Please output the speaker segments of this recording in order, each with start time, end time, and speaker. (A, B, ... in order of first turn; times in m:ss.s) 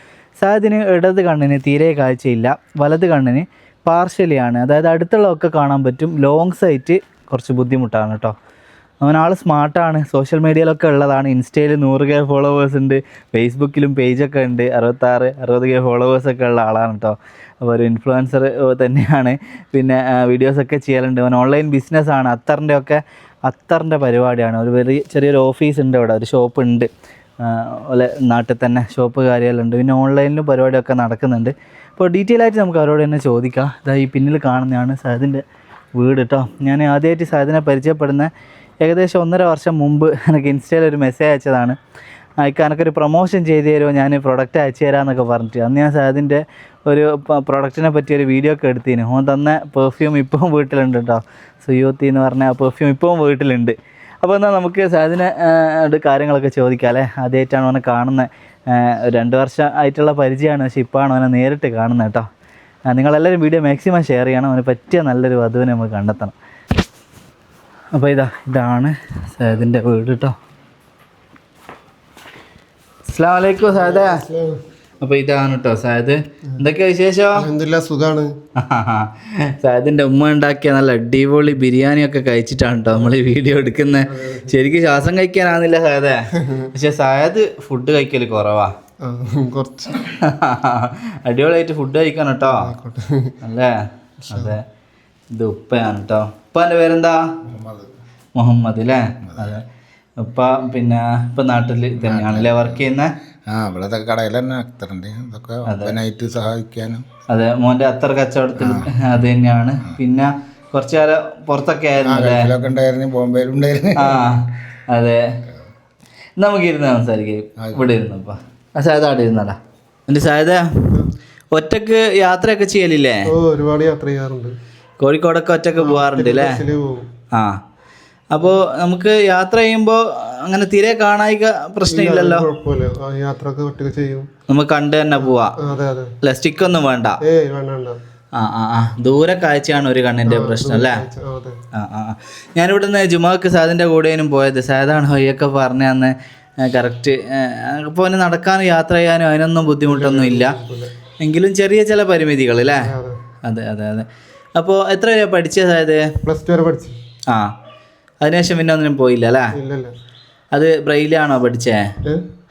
0:00.4-0:08.3 A
0:09.0-0:26.9 A
0:27.4-0:35.4 A
0:36.0-0:38.3 A
0:38.8-0:41.8 A
0:42.4-1:02.3 A
1:02.9-1:06.3 A
1:07.9-1:10.3 A
1:13.1-1:14.2 A
1:13.7-1:14.6 B
1:15.0-1:17.4 A
1:17.4-1:18.3 B
1:18.6-1:28.7 A
1:24.0-1:24.5 B
1:26.3-1:26.7 B
1:29.0-1:30.0 B
1:30.1-1:32.7 A
1:32.4-1:33.4 B
1:33.4-1:33.8 A
1:34.3-1:34.6 B
1:34.3-1:34.6 A
1:35.3-1:37.2 A
1:37.4-1:37.9 C
1:38.4-1:39.6 A
1:39.3-1:39.6 C
1:40.2-1:43.1 A
1:42.0-1:42.8 C
1:43.5-1:47.0 C
1:45.7-1:46.0 A
1:47.3-1:52.5 A
1:48.6-1:48.9 C
1:52.0-1:54.2 C
1:54.0-1:55.2 A
1:56.4-1:59.6 A
1:57.6-1:57.8 C
2:00.1-2:00.9 A
2:01.5-2:03.3 A
2:03.3-2:04.5 B
2:05.0-2:06.5 A
2:05.8-2:07.1 B
2:07.3-2:07.6 A
2:08.3-2:12.4 A
2:11.9-2:14.3 B
2:14.5-2:15.6 A
2:15.2-2:16.1 B
2:16.2-2:17.2 A
2:17.2-2:18.0 B
2:18.4-2:21.0 A
2:20.2-2:21.6 B
2:21.7-2:30.5 A
2:29.8-2:30.9 B
2:31.2-2:32.9 A
2:32.8-2:33.2 B
2:33.4-2:36.0 A
2:36.2-2:37.0 B
2:38.2-2:39.5 A
2:39.6-2:39.9 B
2:40.5-2:41.9 A